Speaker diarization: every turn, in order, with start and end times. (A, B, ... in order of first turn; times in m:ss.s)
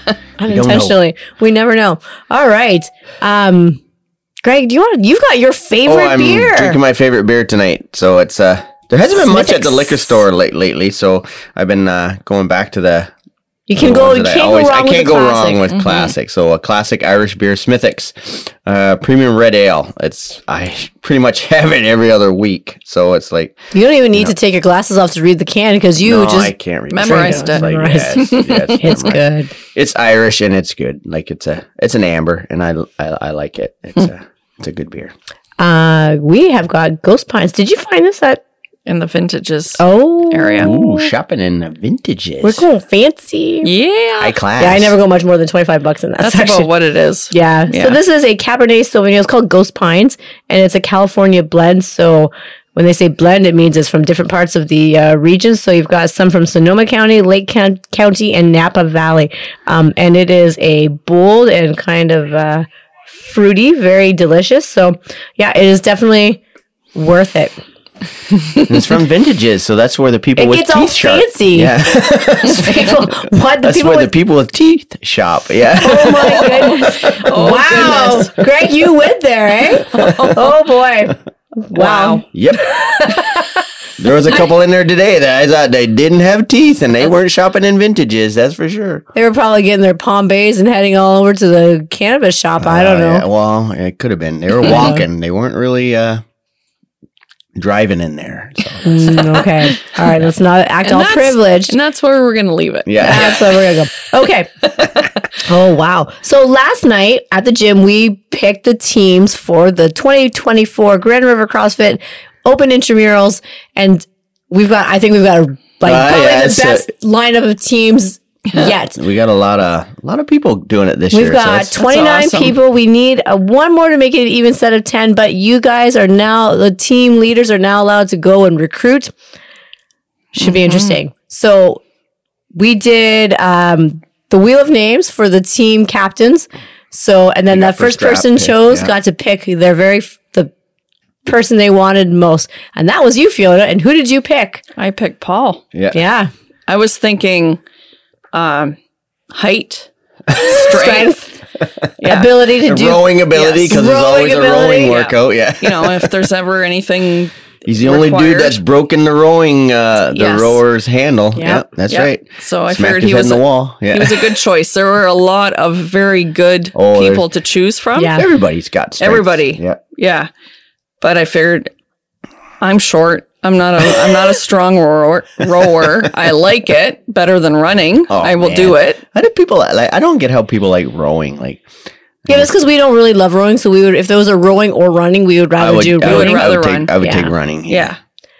0:00.4-0:03.8 A
0:00.4-0:01.0 B
0:04.4-0:06.8 A
0:05.8-0:13.1 B
0:09.1-0:10.2 A
0:13.7-0:15.6 A
0:13.8-0:23.6 B
0:15.7-0:16.1 C
0:23.7-0:29.5 A
0:26.0-0:35.1 B
0:26.9-0:29.0 C
0:35.6-0:38.4 A
0:38.9-0:40.7 C
0:39.8-0:41.1 A
0:40.6-0:42.6 B
0:42.4-0:43.7 A
0:43.6-0:44.4 C
0:44.2-0:44.9 B
0:44.6-0:46.7 A
0:46.2-0:48.0 C
0:47.3-1:06.4 A
1:06.9-1:07.6 A
1:08.6-1:13.1 B
1:10.4-1:11.9 A
1:12.4-1:14.1 A
1:13.6-1:17.1 B
1:15.8-1:23.5 A
1:16.0-1:18.4 C
1:19.9-1:20.5 C
1:21.7-1:22.2 C
1:22.3-1:22.8 B
1:24.0-1:29.0 B
1:29.1-1:33.2 A
1:32.6-1:36.2 B
1:34.6-1:35.0 A
1:34.7-1:34.9 C
1:37.6-1:39.4 B
1:38.8-1:41.8 A
1:40.8-1:43.5 C
1:42.8-1:43.6 B
1:43.0-1:44.5 A
1:45.3-1:59.0 A
1:55.8-1:56.8 B
1:58.9-2:01.8 B
2:01.1-2:09.1 A
2:01.8-2:02.6 C
2:10.3-2:11.8 A
2:10.4-2:11.0 C
2:12.5-2:20.5 A
2:17.5-2:18.9 B
2:21.2-2:24.6 A
2:24.8-2:25.6 C
2:25.9-2:26.3 A
2:26.7-2:27.6 C
2:28.3-2:28.8 C
2:29.3-2:31.1 C
2:30.4-2:31.4 A
2:32.0-2:32.3 C
2:32.0-2:35.1 A
2:32.6-2:36.3 B
2:35.6-2:38.6 C
2:37.6-2:44.3 B
2:40.1-2:40.6 C
2:41.4-2:41.6 A
2:41.9-2:48.2 C
2:46.7-2:47.3 B
2:48.0-2:48.2 A
2:48.1-2:49.8 B
2:49.0-2:50.3 C
2:51.0-2:51.7 C
2:52.6-2:59.0 C
2:58.1-3:01.6 B
3:02.2-3:02.6 B
3:02.3-3:07.3 A
3:05.6-3:07.9 B
3:06.0-3:07.0 C
3:07.7-3:08.0 C